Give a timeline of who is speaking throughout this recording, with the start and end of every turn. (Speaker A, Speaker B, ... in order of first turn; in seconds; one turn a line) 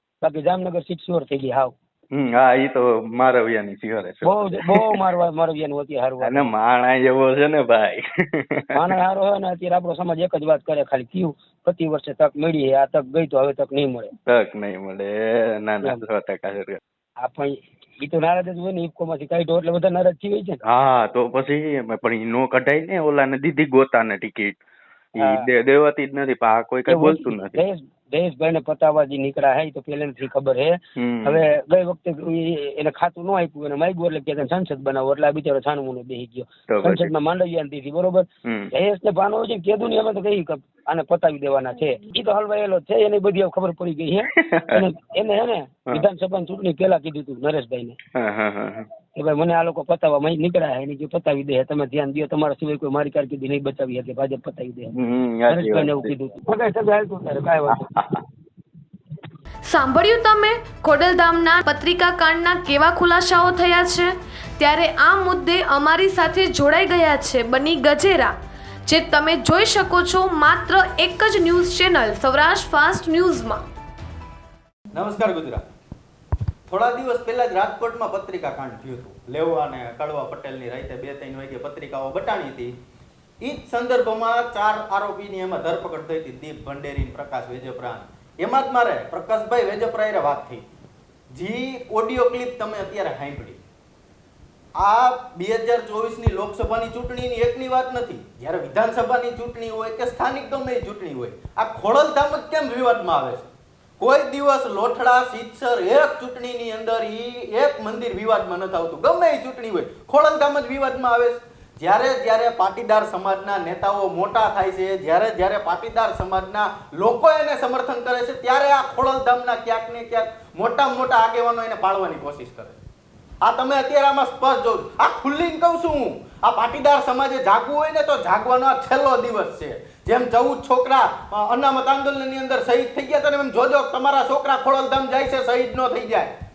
Speaker A: 0.2-1.7
Speaker B: 2.1-5.1
Speaker A: 4.2-6.5
Speaker B: 6.2-8.9
Speaker A: 8.7-14.1
Speaker B: 14.2-16.8
Speaker A: 17.2-20.6
Speaker B: 20.6-24.6
Speaker B: 25.1-27.6
Speaker A: 25.2-25.5
Speaker A: 26.9-48.0
Speaker B: 31.0-31.5
Speaker B: 36.7-37.1
Speaker B: 38.4-38.7
Speaker B: 44.3-44.8
Speaker B: 48.1-48.9
Speaker A: 49.1-54.9
Speaker B: 54.9-56.1
Speaker A: 55.5-57.8
Speaker B: 57.7-58.2
Speaker C: 59.6-68.3
Speaker C: 68.8-73.6
Speaker D: 74.9-75.6
Speaker D: 76.7-82.7
Speaker D: 83.4-90.6
Speaker D: 91.3-93.6
Speaker D: 94.8-103.5
Speaker D: 104.0-122.8
Speaker D: 123.4-136.3